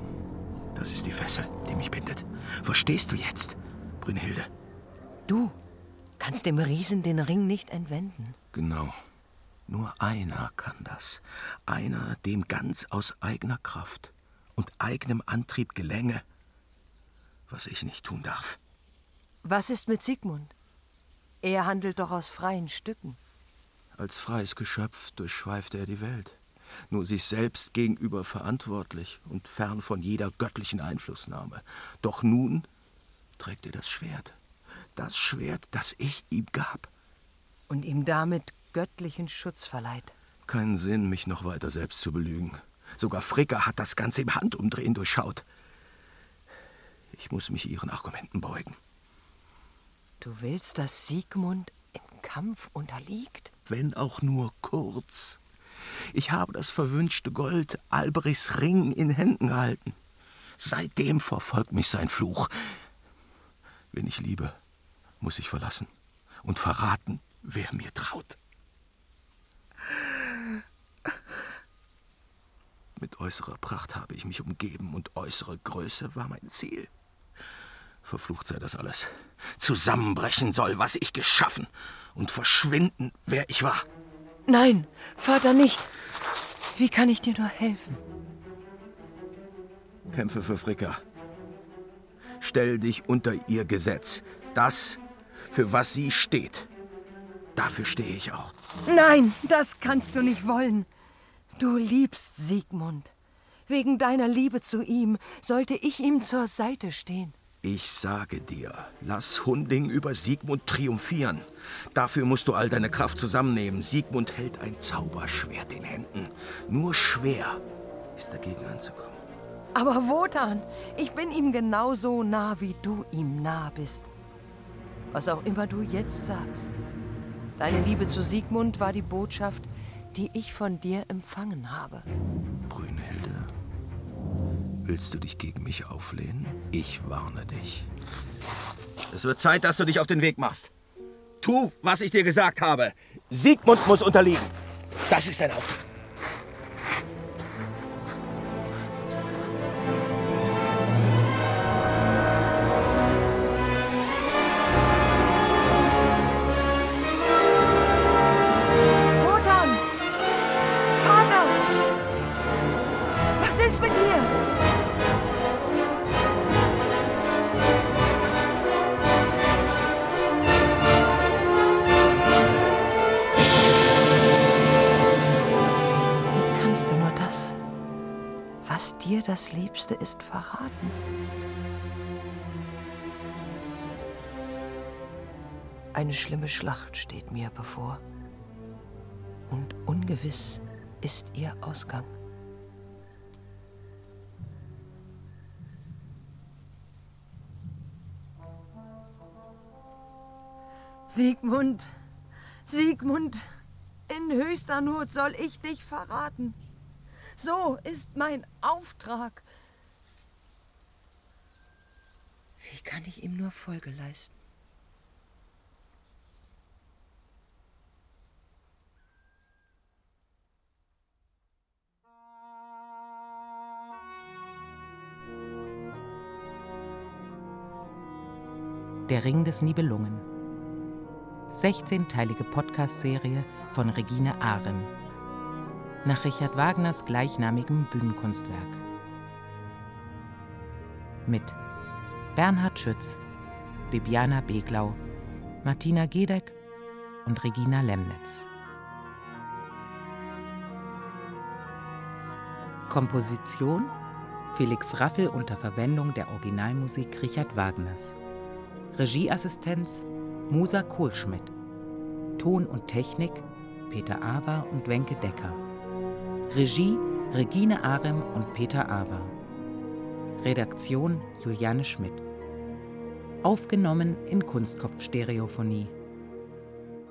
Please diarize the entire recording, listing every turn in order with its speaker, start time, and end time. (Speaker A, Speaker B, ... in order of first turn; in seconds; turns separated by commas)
Speaker A: 0.7-4.5, Speaker B: 5.3-5.6, Speaker B: 6.2-8.4, Speaker A: 8.5-9.0, Speaker A: 9.7-16.2, Speaker A: 17.5-18.6, Speaker B: 19.4-20.5, Speaker B: 21.4-23.2, Speaker A: 23.9-32.7, Speaker A: 33.4-34.4, Speaker A: 35.0-36.9, Speaker B: 37.7-40.1, Speaker A: 40.5-45.5, Speaker A: 47.1-48.8, Speaker B: 50.2-53.5, Speaker A: 53.7-60.0, Speaker A: 60.6-62.8, Speaker A: 63.9-64.6, Speaker A: 65.2-65.9, Speaker A: 66.4-68.4, Speaker A: 73.0-76.9, Speaker A: 78.0-83.9, Speaker B: 84.5-85.9, Speaker B: 86.7-88.0, Speaker A: 90.1-91.0, Speaker A: 92.4-96.7, Speaker A: 97.6-98.5, Speaker B: 98.8-100.9, Speaker B: 101.6-103.1, Speaker B: 103.7-107.3, Speaker A: 107.6-117.6, Speaker A: 118.2-119.2, Speaker B: 119.8-124.1, Speaker B: 125.1-126.8, Speaker B: 127.6-132.1, Speaker A: 132.7-133.6, Speaker A: 134.8-137.9, Speaker A: 139.1-140.7, Speaker A: 141.4-144.6, Speaker A: 145.1-145.9, Speaker B: 159.1-159.8, Speaker B: 160.9-161.6, Speaker B: 163.4-164.3, Speaker B: 176.3-177.6, Speaker B: 178.6-181.0, Speaker B: 185.9-188.0, Speaker B: 189.5-192.1, Speaker B: 201.1-201.9, Speaker B: 202.7-203.4, Speaker B: 204.1-206.6, Speaker B: 207.4-209.5, Speaker B: 212.6-214.3, Speaker C: 229.1-230.3, Speaker C: 231.5-234.9, Speaker C: 236.0-238.8, Speaker C: 241.2-241.6, Speaker C: 242.3-243.2, Speaker C: 243.9-245.0, Speaker C: 245.6-246.6, Speaker C: 247.2-248.5, Speaker C: 252.9-253.9, Speaker C: 254.5-258.2, Speaker C: 258.9-261.5, Speaker C: 262.4-265.6, Speaker C: 266.5-269.4, Speaker C: 270.4-272.2, Speaker C: 273.4-275.9